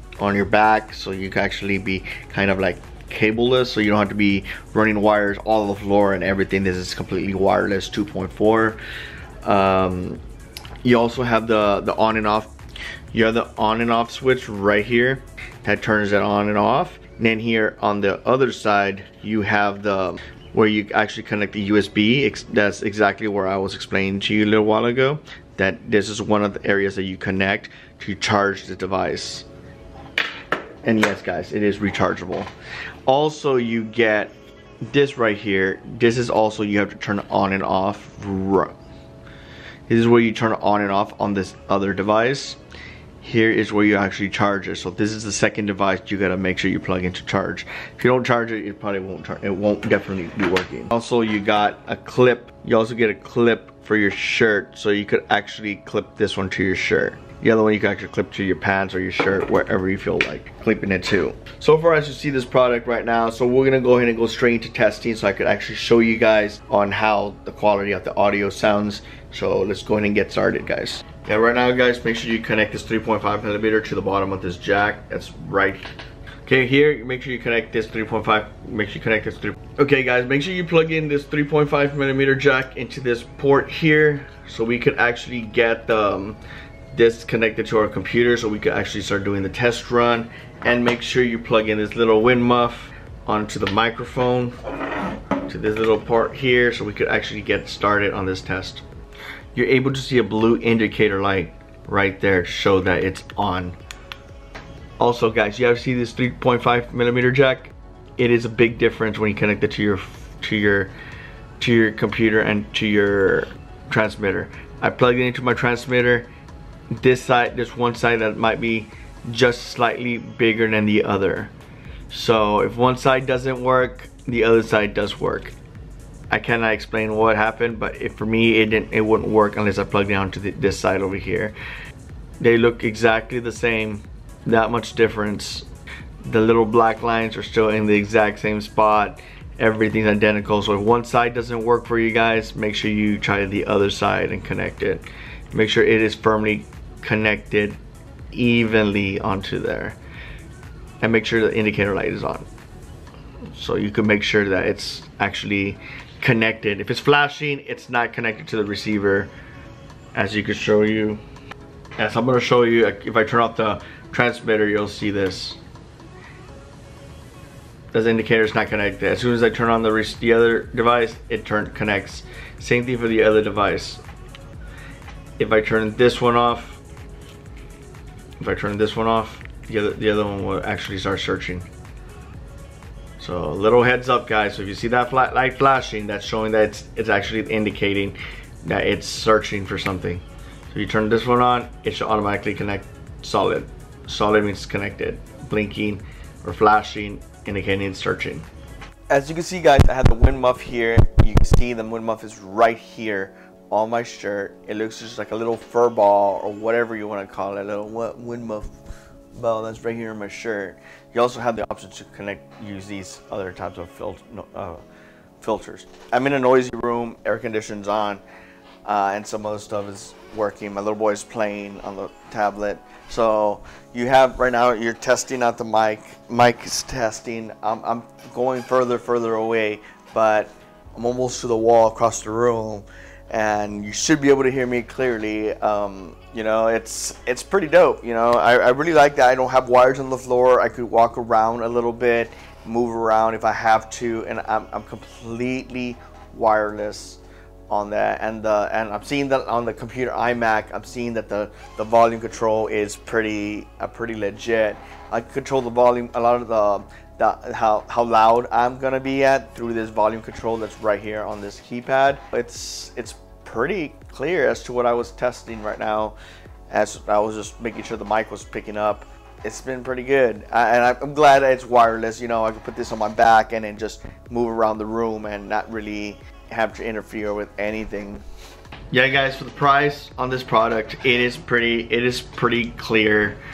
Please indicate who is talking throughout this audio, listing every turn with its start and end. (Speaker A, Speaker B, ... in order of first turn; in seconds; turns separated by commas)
Speaker A: 0.2-8.8, Speaker A: 9.4-10.2, Speaker A: 10.8-12.5, Speaker A: 13.1-29.5, Speaker A: 30.8-32.5, Speaker A: 33.1-34.4, Speaker A: 34.9-38.8, Speaker A: 39.9-42.6, Speaker A: 43.2-75.9, Speaker A: 76.5-86.4, Speaker A: 86.9-94.6, Speaker A: 95.4-98.8, Speaker A: 99.5-103.8, Speaker A: 105.0-110.9, Speaker A: 111.6-116.3, Speaker A: 117.0-121.5, Speaker A: 122.1-125.5, Speaker A: 126.3-131.6, Speaker A: 132.4-135.7, Speaker A: 136.2-147.8, Speaker A: 148.3-150.0, Speaker A: 151.0-152.5, Speaker A: 153.5-159.3, Speaker A: 160.1-161.2, Speaker A: 162.0-165.6, Speaker A: 167.9-174.0, Speaker A: 175.4-176.8, Speaker A: 178.4-181.7, Speaker A: 183.2-198.5, Speaker A: 199.1-208.8, Speaker A: 209.3-214.8, Speaker A: 215.4-218.2, Speaker A: 218.8-266.2, Speaker A: 266.7-278.2, Speaker A: 278.9-283.4